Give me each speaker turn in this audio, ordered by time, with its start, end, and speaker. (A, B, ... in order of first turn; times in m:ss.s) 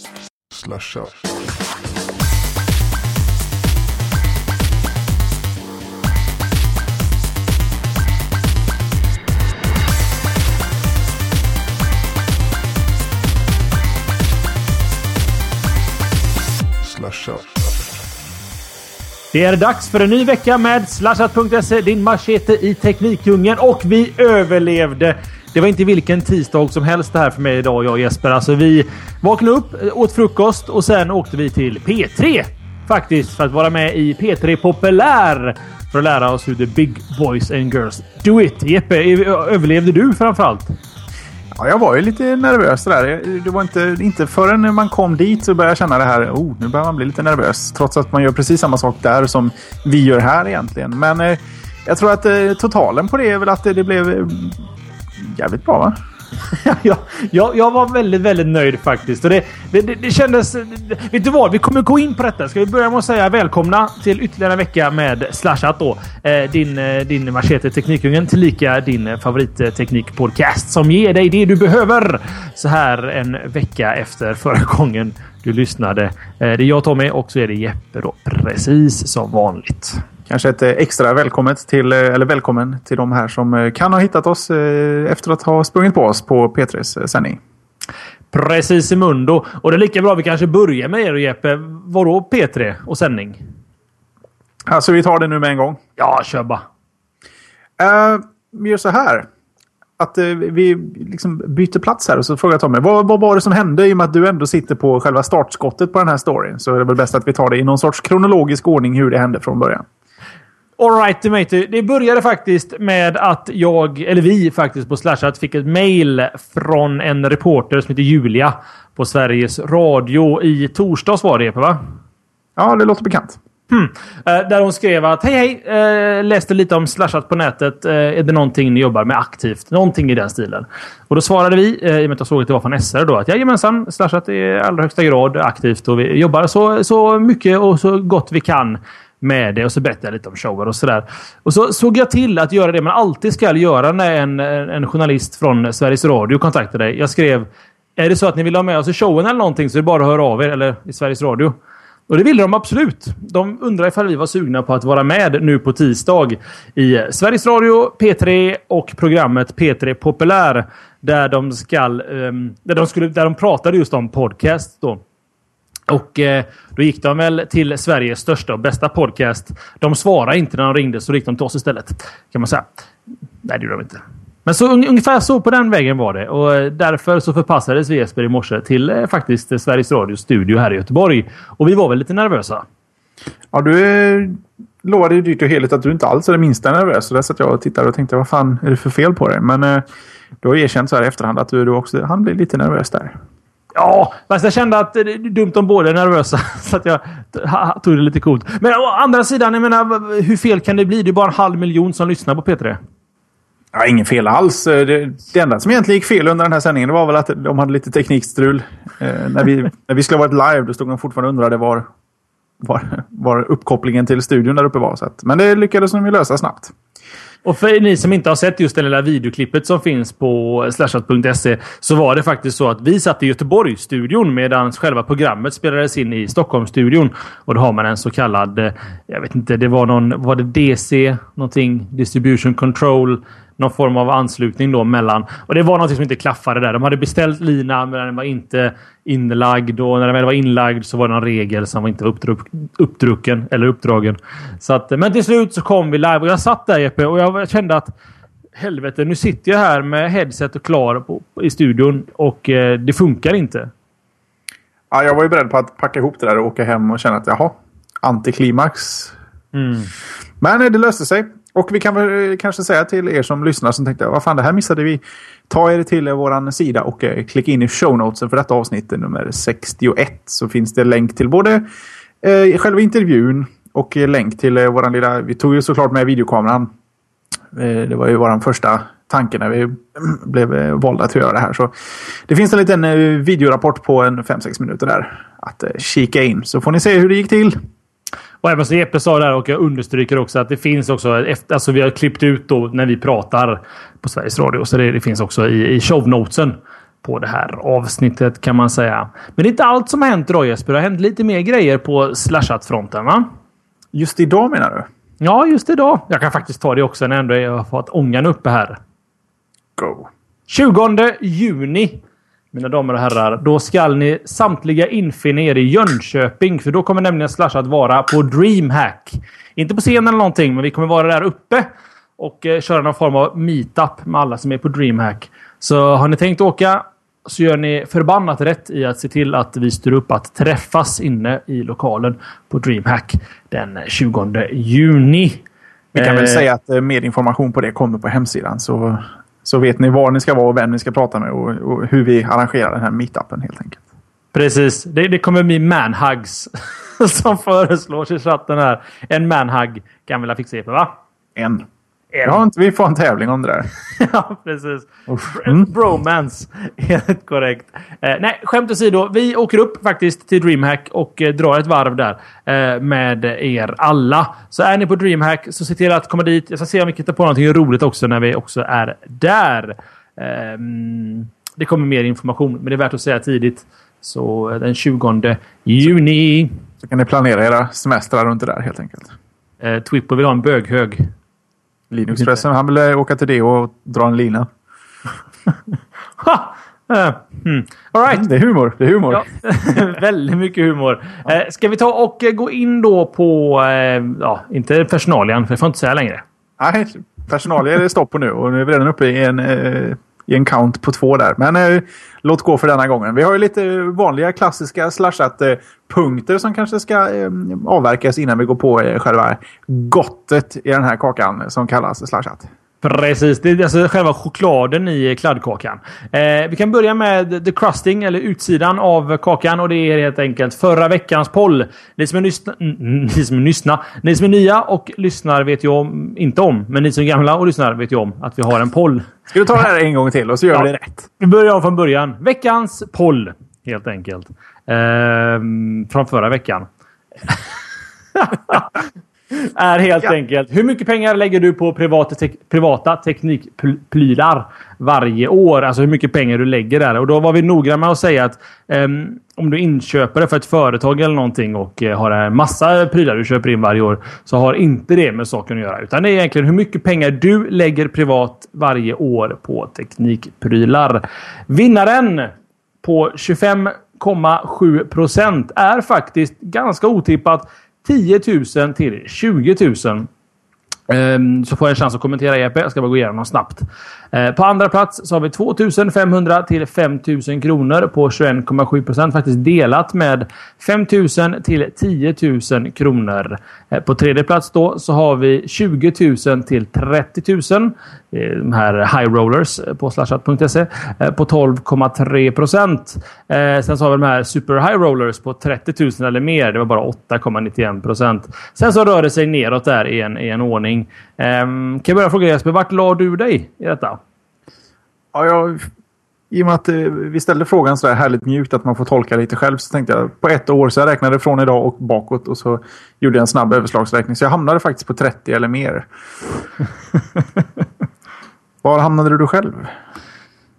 0:00.5-0:01.5 A
0:16.8-0:18.0 A
0:19.3-0:40.7 B
0:41.5-0:54.6 C
0:55.2-0:56.0 C
0:56.5-1:20.0 B
1:20.3-1:27.4 C
1:28.3-1:33.4 B
1:34.7-1:35.8 C
1:36.0-1:36.6 B
1:37.8-1:39.3 C
1:40.0-1:49.8 C
1:50.8-2:01.8 B
2:02.6-2:03.4 C
2:03.7-2:31.5 B
2:32.1-2:45.0 B
2:45.9-2:52.7 B
2:53.4-3:02.6 B
3:03.5-3:09.8 C
3:10.4-3:13.1 C
3:13.7-3:22.8 B
3:23.7-3:31.9 C
3:32.6-3:36.7 C
3:37.4-4:07.9 B
4:08.5-4:13.7 B
4:14.9-4:19.1 C
4:19.5-4:19.9 B
4:20.4-4:31.6 C
4:32.2-4:36.7 C
4:37.5-4:47.6 C
4:48.4-5:03.3 B
5:03.9-5:04.9 C
5:05.2-5:08.8 B
5:09.8-5:10.1 C
5:10.5-5:36.4 B
5:35.9-5:43.8 C
5:44.3-5:50.9 B
5:51.4-5:51.6 C
5:52.1-5:52.4 B
5:52.2-5:53.7 C
5:53.9-6:16.6 B
5:55.1-5:55.7 C
6:16.8-6:19.1 C
6:19.6-6:21.1 B
6:21.9-6:24.5 C
6:26.2-6:28.3 B
6:28.1-6:29.2 C
6:29.1-6:36.2 B
6:36.6-6:52.5 C
6:52.8-7:09.1 B
7:09.3-7:11.0 C
7:10.5-7:16.7 B
7:18.1-7:50.1 B
7:50.9-8:24.0 B
8:25.1-8:25.7 C
8:26.3-8:35.9 C
8:38.6-8:39.7 C